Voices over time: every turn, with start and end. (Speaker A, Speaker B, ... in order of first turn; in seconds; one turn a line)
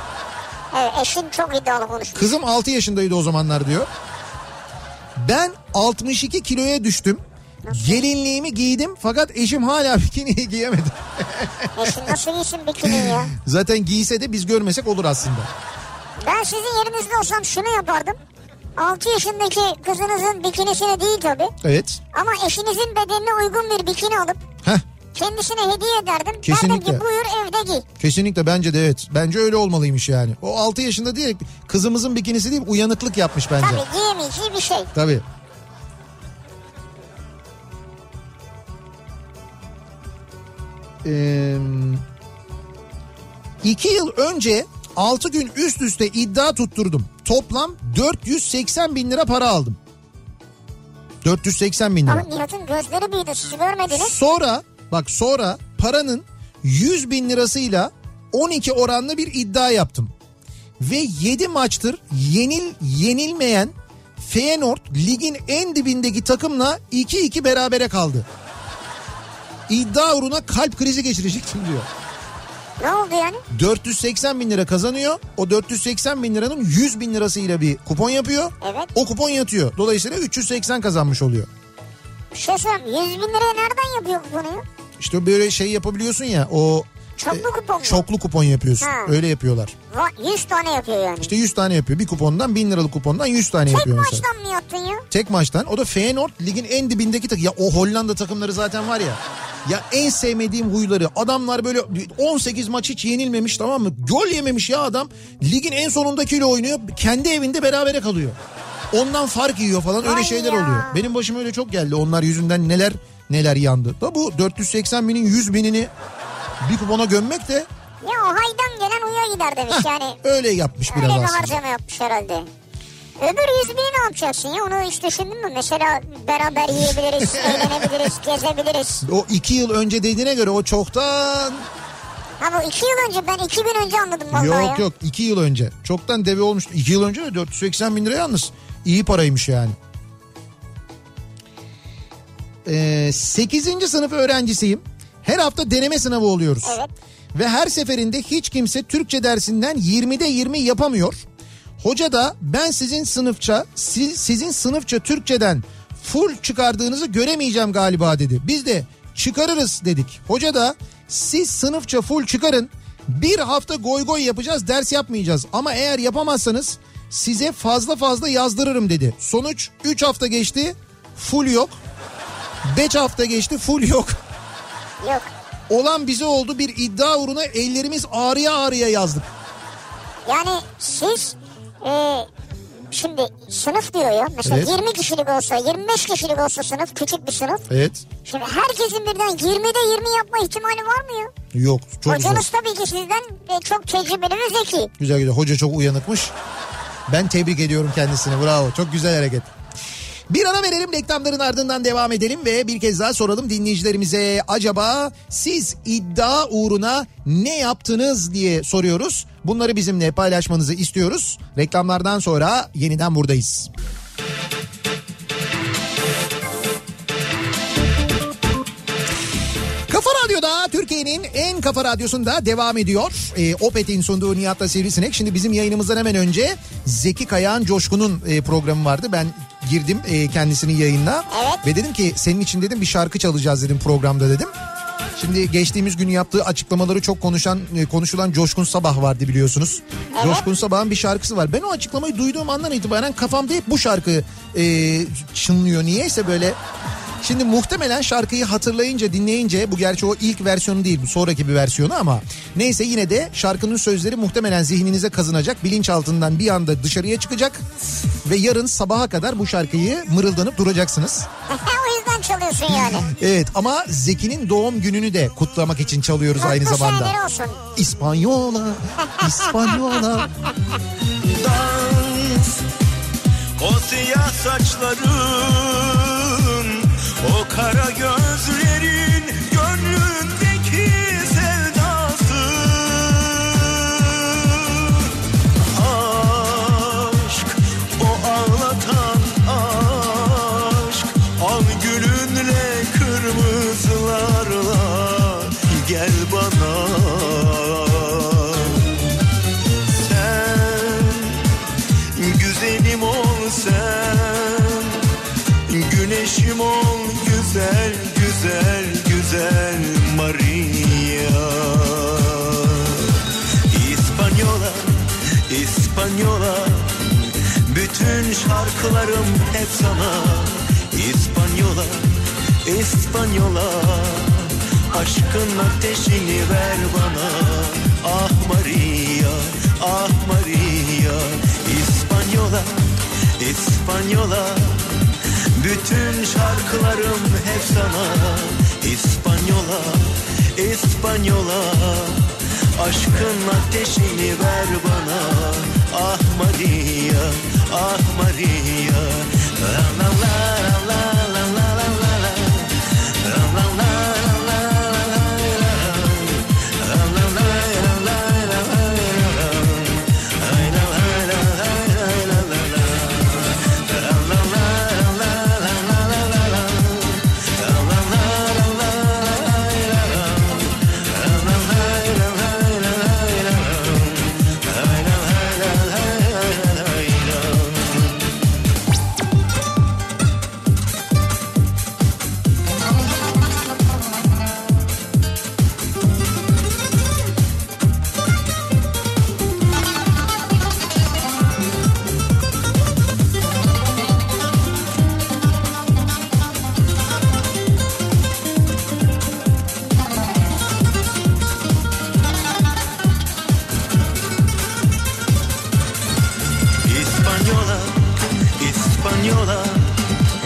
Speaker A: 0.7-2.4
Speaker B: 2.1-3.9
Speaker B: 5.2-12.2
Speaker A: 7.7-8.0
Speaker A: 11.8-13.3
Speaker B: 12.8-15.5
Speaker A: 16.2-18.2
Speaker A: 18.8-21.5
Speaker B: 21.6-22.0
Speaker A: 22.1-24.4
Speaker A: 25.1-27.9
Speaker B: 26.4-27.0
Speaker B: 28.0-33.8
Speaker A: 33.6-34.9
Speaker B: 35.0-35.2
Speaker B: 41.0-42.0
Speaker B: 43.6-49.8
Speaker B: 51.2-52.3
Speaker A: 52.1-54.2
Speaker B: 53.9-60.1
Speaker B: 60.8-68.3
Speaker B: 69.7-71.9
Speaker A: 72.8-73.4
Speaker B: 73.5-81.5
Speaker A: 78.6-78.9
Speaker A: 82.3-84.7
Speaker B: 85.0-89.8
Speaker A: 87.2-88.1
Speaker A: 88.8-89.2
Speaker A: 89.9-91.3
Speaker B: 91.2-94.2
Speaker A: 93.7-95.1
Speaker B: 95.1-108.4
Speaker B: 108.9-115.9
Speaker A: 110.0-111.1
Speaker B: 116.6-117.7
Speaker A: 118.0-120.2
Speaker B: 119.7-121.6
Speaker A: 120.9-122.5
Speaker A: 123.2-129.1
Speaker B: 127.2-127.9
Speaker B: 129.0-131.7
Speaker A: 132.4-134.8
Speaker B: 134.3-139.8
Speaker B: 142.7-146.8
Speaker A: 146.6-146.9
Speaker B: 147.3-151.2
Speaker B: 151.8-171.8
Speaker B: 172.6-174.2
Speaker A: 175.0-175.3
Speaker B: 175.7-179.3
Speaker A: 180.3-182.3
Speaker A: 182.9-187.7
Speaker B: 184.4-184.7
Speaker B: 187.7-188.1
Speaker A: 188.2-191.3
Speaker B: 191.5-192.4
Speaker A: 192.1-194.9
Speaker B: 195.0-196.3
Speaker B: 197.1-199.5
Speaker B: 200.3-213.7
Speaker B: 219.9-234.5
Speaker A: 231.3-231.7
Speaker B: 235.2-246.6
Speaker A: 240.2-240.5
Speaker B: 247.2-257.6
Speaker B: 258.2-261.3
Speaker A: 261.5-263.1
Speaker B: 263.0-267.1
Speaker A: 266.4-267.6
Speaker B: 267.8-270.3
Speaker C: 271.1-272.7
Speaker C: 273.6-298.9
Speaker C: 299.9-301.5
Speaker C: 302.1-305.1
Speaker C: 305.7-378.2
Speaker C: 406.8-410.0